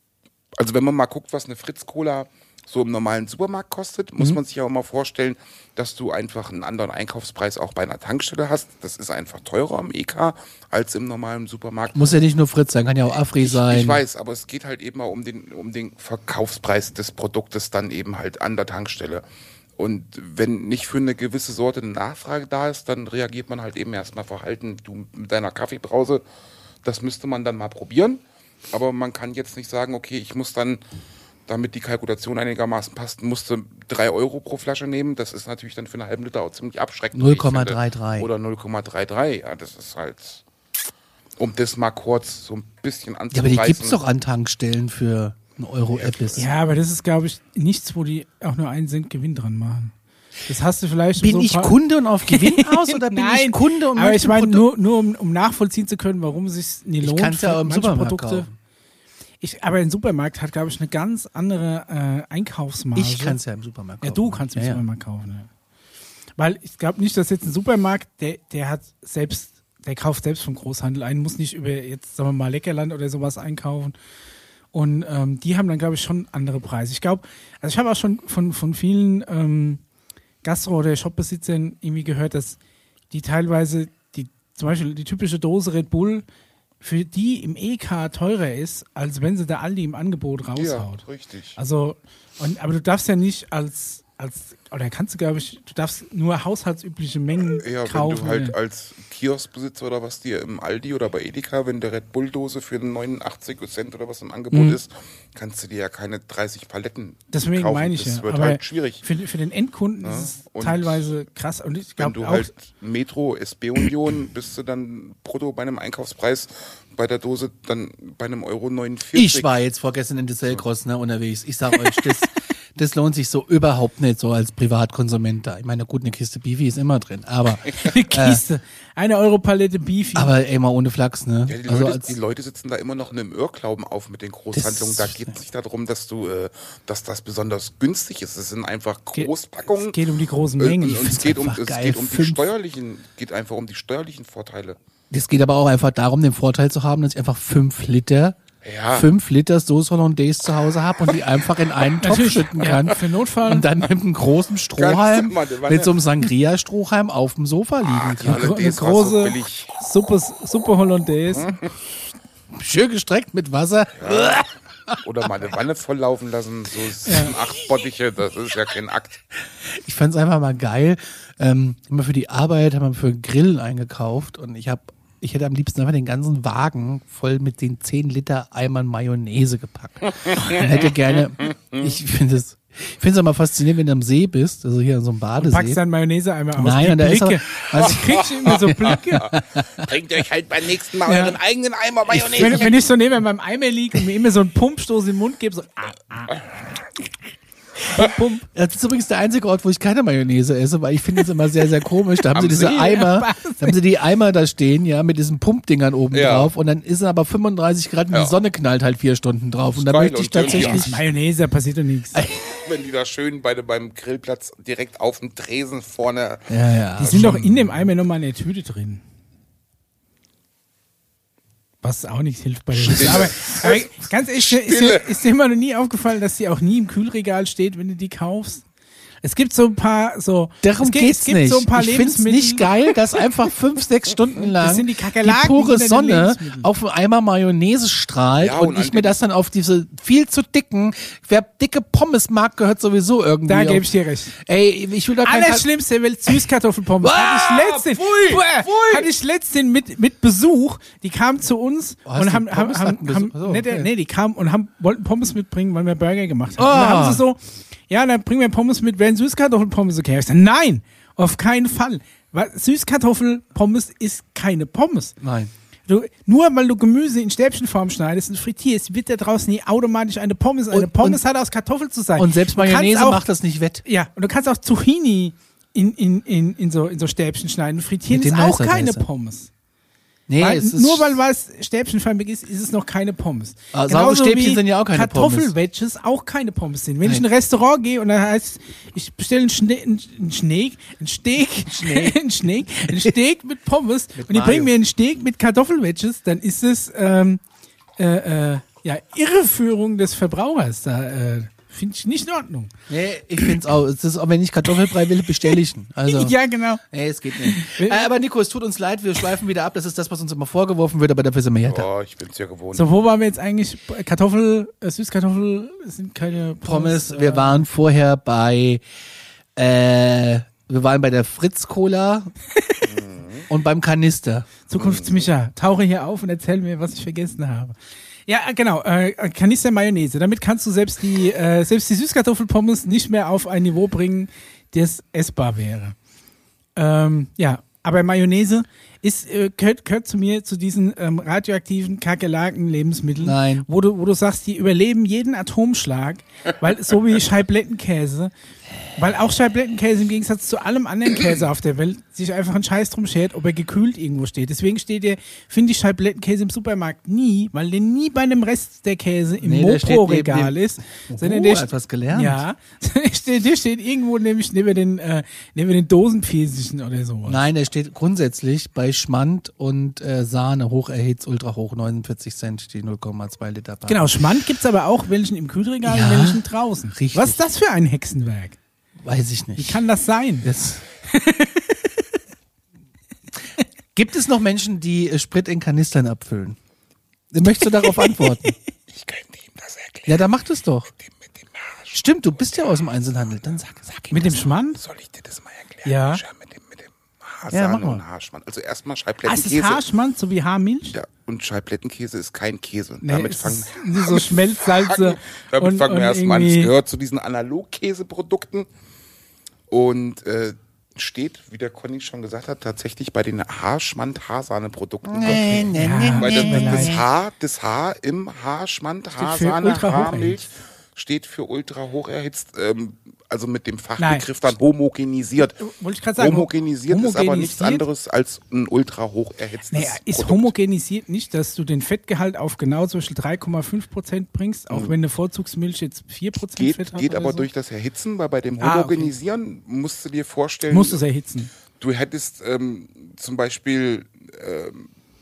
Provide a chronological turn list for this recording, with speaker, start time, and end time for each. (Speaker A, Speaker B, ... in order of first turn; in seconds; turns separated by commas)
Speaker A: 0.6-12.1, Speaker B: 11.9-14.0, Speaker A: 13.4-19.2, Speaker A: 19.8-26.2, Speaker A: 26.8-30.8, Speaker A: 31.5-40.4, Speaker B: 37.1-38.3, Speaker A: 41.4-44.0, Speaker B: 43.3-46.5, Speaker A: 46.0-46.5, Speaker C: 46.4-49.9, Speaker C: 50.5-51.8, Speaker B: 51.2-54.7, Speaker C: 52.3-58.5, Speaker B: 57.0-58.5, Speaker C: 59.4-63.4, Speaker B: 63.0-64.8, Speaker C: 64.0-65.5, Speaker C: 66.4-73.9, Speaker C: 74.7-79.8, Speaker C: 80.4-82.6, Speaker C: 83.1-86.2, Speaker C: 86.8-91.0, Speaker A: 90.6-91.6, Speaker C: 91.6-98.5, Speaker A: 97.6-109.0, Speaker C: 104.5-104.8, Speaker C: 107.3-112.5, Speaker A: 110.0-111.1, Speaker A: 112.0-119.5, Speaker B: 119.2-128.4, Speaker C: 127.7-130.3, Speaker B: 130.2-132.2, Speaker A: 131.5-140.0, Speaker B: 134.5-135.3, Speaker C: 139.1-141.2, Speaker A: 140.6-144.8, Speaker B: 140.9-142.5, Speaker B: 145.1-148.4, Speaker A: 148.6-149.1, Speaker B: 148.9-158.6, Speaker C: 152.0-153.7, Speaker A: 154.8-156.0, Speaker A: 158.0-159.7, Speaker C: 158.2-161.6, Speaker A: 161.3-161.7, Speaker B: 162.5-165.3, Speaker A: 164.0-164.4, Speaker A: 165.0-169.2, Speaker C: 167.1-167.3, Speaker B: 169.7-185.8, Speaker C: 185.4-189.4, Speaker B: 186.6-189.8, Speaker A: 188.2-188.9, Speaker A: 189.7-192.8, Speaker C: 191.1-191.3, Speaker B: 192.1-192.7, Speaker C: 192.2-196.4, Speaker C: 197.9-198.5, Speaker B: 198.5-211.0, Speaker A: 202.3-202.9, Speaker C: 202.6-203.8, Speaker A: 206.1-206.5, Speaker A: 208.1-208.4, Speaker A: 209.8-210.9, Speaker C: 210.4-212.3, Speaker A: 212.3-217.3, Speaker B: 216.5-217.7, Speaker C: 217.0-219.0, Speaker C: 221.8-228.7, Speaker A: 222.8-225.1, Speaker B: 222.9-223.3, Speaker C: 229.2-232.8, Speaker B: 230.6-245.7, Speaker C: 234.6-236.7, Speaker A: 238.4-239.2, Speaker C: 243.5-244.3, Speaker C: 245.2-265.2, Speaker B: 247.0-249.1, Speaker B: 252.1-253.9, Speaker B: 256.6-257.2, Speaker B: 265.2-265.5, Speaker C: 265.9-273.2, Speaker B: 270.7-271.2, Speaker B: 272.2-273.8, Speaker C: 273.9-279.5, Speaker B: 278.1-279.1, Speaker B: 280.3-281.2, Speaker C: 280.4-297.4, Speaker B: 283.7-285.5, Speaker B: 291.7-292.2, Speaker B: 292.9-293.1, Speaker B: 294.2-294.7, Speaker C: 298.0-302.7, Speaker B: 302.9-311.9, Speaker C: 306.1-306.8, Speaker C: 307.4-308.1, Speaker A: 311.7-312.9, Speaker C: 312.7-317.7, Speaker B: 316.6-318.8, Speaker B: 319.6-322.3, Speaker A: 322.8-323.5, Speaker B: 323.5-324.5, Speaker C: 324.7-327.8, Speaker A: 324.8-325.3, Speaker C: 328.3-336.0, Speaker C: 336.8-348.3, Speaker B: 343.2-343.7, Speaker C: 349.0-367.4, Speaker B: 359.4-362.4, Speaker B: 367.3-374.1, Speaker C: 373.9-378.6, Speaker B: 375.9-377.4, Speaker B: 379.0-379.8, Speaker C: 379.6-380.5, Speaker B: 380.4-380.8, Speaker C: 381.1-381.9, Speaker B: 383.9-386.6, Speaker B: 387.3-388.6, Speaker C: 387.8-388.5, Speaker A: 388.9-390.2, Speaker B: 390.1-390.9, Speaker A: 391.6-391.9, Speaker B: 391.9-394.4, Speaker C: 394.1-394.8, Speaker A: 394.1-399.8, Speaker C: 395.9-396.2, Speaker B: 397.5-398.0, Speaker C: 399.2-401.0, Speaker A: 400.9-408.7, Speaker C: 403.0-406.7, Speaker A: 409.7-425.6, Speaker B: 415.1-417.1, Speaker C: 415.8-417.0, Speaker C: 419.2-420.4, Speaker C: 424.0-424.3, Speaker C: 425.6-427.8, Speaker A: 426.2-430.5, Speaker C: 429.7-437.5, Speaker A: 436.6-441.0, Speaker C: 438.6-439.1, Speaker C: 440.7-441.5, Speaker A: 441.8-444.9